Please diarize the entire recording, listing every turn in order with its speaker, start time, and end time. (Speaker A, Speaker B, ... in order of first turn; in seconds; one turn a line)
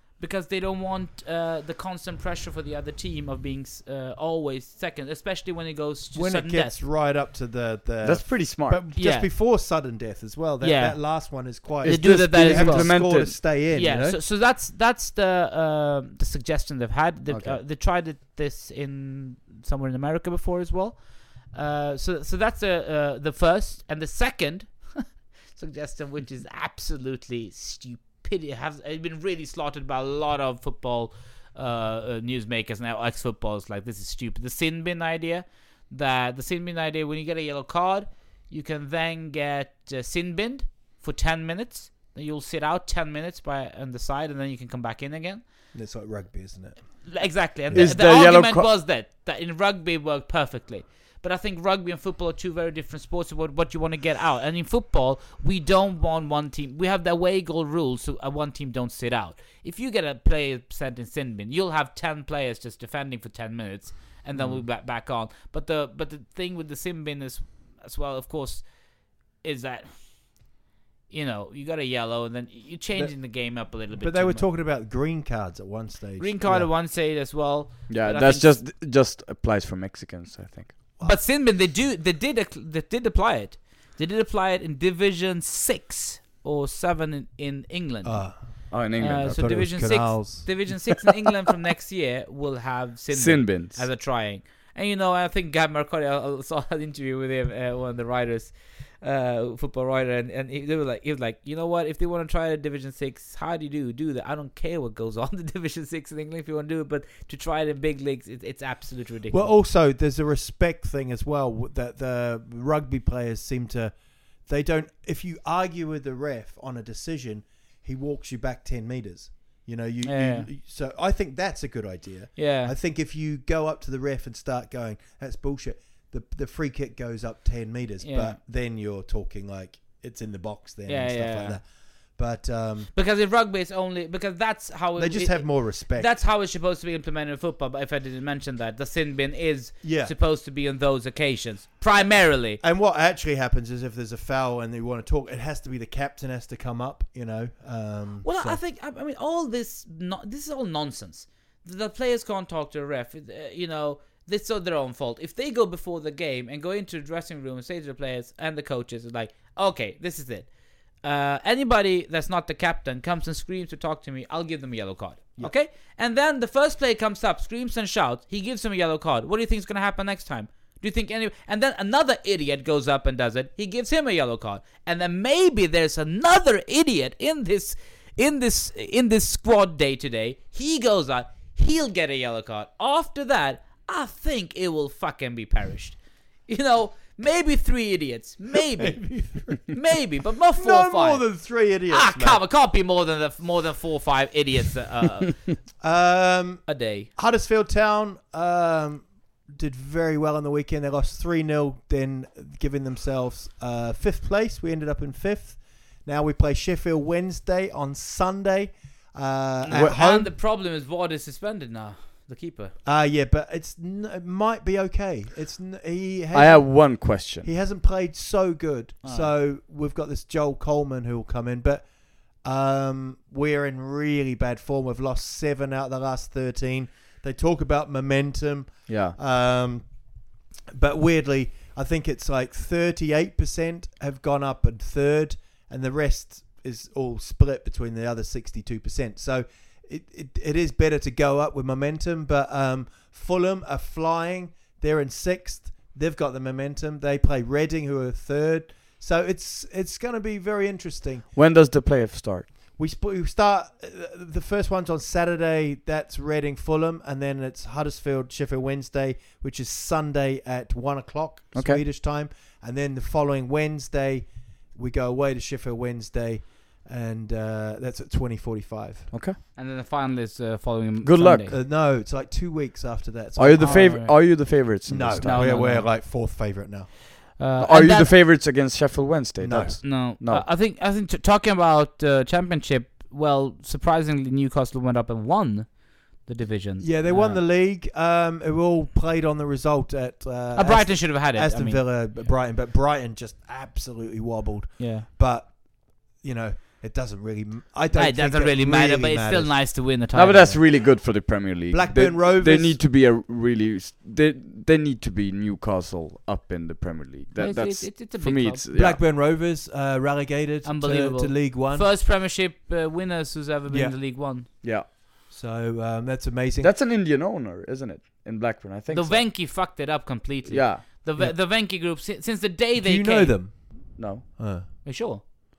Speaker A: 0.2-6.8
Speaker B: 6.1-14.2
Speaker C: 8.0-8.8
Speaker A: 9.0-9.3
Speaker A: 10.6-45.4
Speaker C: 11.8-13.5
Speaker C: 17.3-17.6
Speaker B: 45.7-46.8
Speaker A: 47.1-68.7
Speaker C: 47.7-48.7
Speaker B: 64.3-64.7
Speaker A: 69.4-69.9
Speaker A: 71.1-74.5
Speaker B: 72.9-76.7
Speaker A: 76.2-78.6
Speaker C: 77.9-80.8
Speaker A: 81.0-88.2
Speaker B: 88.0-88.4
Speaker C: 88.7-89.4
Speaker B: 89.0-91.0
Speaker A: 89.0-109.5
Speaker C: 93.1-93.9
Speaker B: 109.3-114.0
Speaker B: 114.5-131.7
Speaker A: 120.0-120.5
Speaker A: 122.4-122.7
Speaker A: 128.0-128.4
Speaker A: 130.9-131.6
Speaker B: 132.2-132.9
Speaker A: 132.9-142.6
Speaker B: 135.0-136.2
Speaker B: 139.8-140.1
Speaker B: 142.6-148.6
Speaker A: 148.2-160.5
Speaker A: 161.0-186.0
Speaker A: 186.5-189.2
Speaker B: 188.5-189.6
Speaker A: 189.7-191.3
Speaker B: 190.5-192.4
Speaker A: 191.9-195.3
Speaker B: 195.8-210.3
Speaker A: 196.7-197.1
Speaker A: 209.6-212.8
Speaker B: 212.8-221.9
Speaker C: 216.3-217.5
Speaker A: 219.0-219.3
Speaker B: 222.4-229.8
Speaker C: 228.9-229.2
Speaker B: 230.7-251.3
Speaker C: 251.3-252.5
Speaker B: 252.8-269.1
Speaker C: 261.6-261.8
Speaker C: 269.1-269.4
Speaker A: 269.6-271.6
Speaker C: 271.0-271.5
Speaker B: 271.5-276.9
Speaker C: 273.4-275.4
Speaker A: 273.6-274.2
Speaker A: 275.2-275.9
Speaker A: 277.4-278.1
Speaker C: 277.6-280.5
Speaker B: 279.4-279.8
Speaker A: 279.8-287.4
Speaker B: 286.8-299.7
Speaker A: 290.6-292.1
Speaker A: 294.8-295.1
Speaker A: 297.9-300.6
Speaker C: 300.1-309.0
Speaker B: 301.7-302.8
Speaker A: 307.4-308.6
Speaker B: 308.7-311.9
Speaker A: 310.6-314.5
Speaker B: 313.7-314.7
Speaker B: 315.3-316.7
Speaker C: 316.6-319.3
Speaker A: 318.9-323.4
Speaker C: 320.5-320.9
Speaker B: 322.8-324.7
Speaker C: 324.0-324.2
Speaker A: 324.8-325.2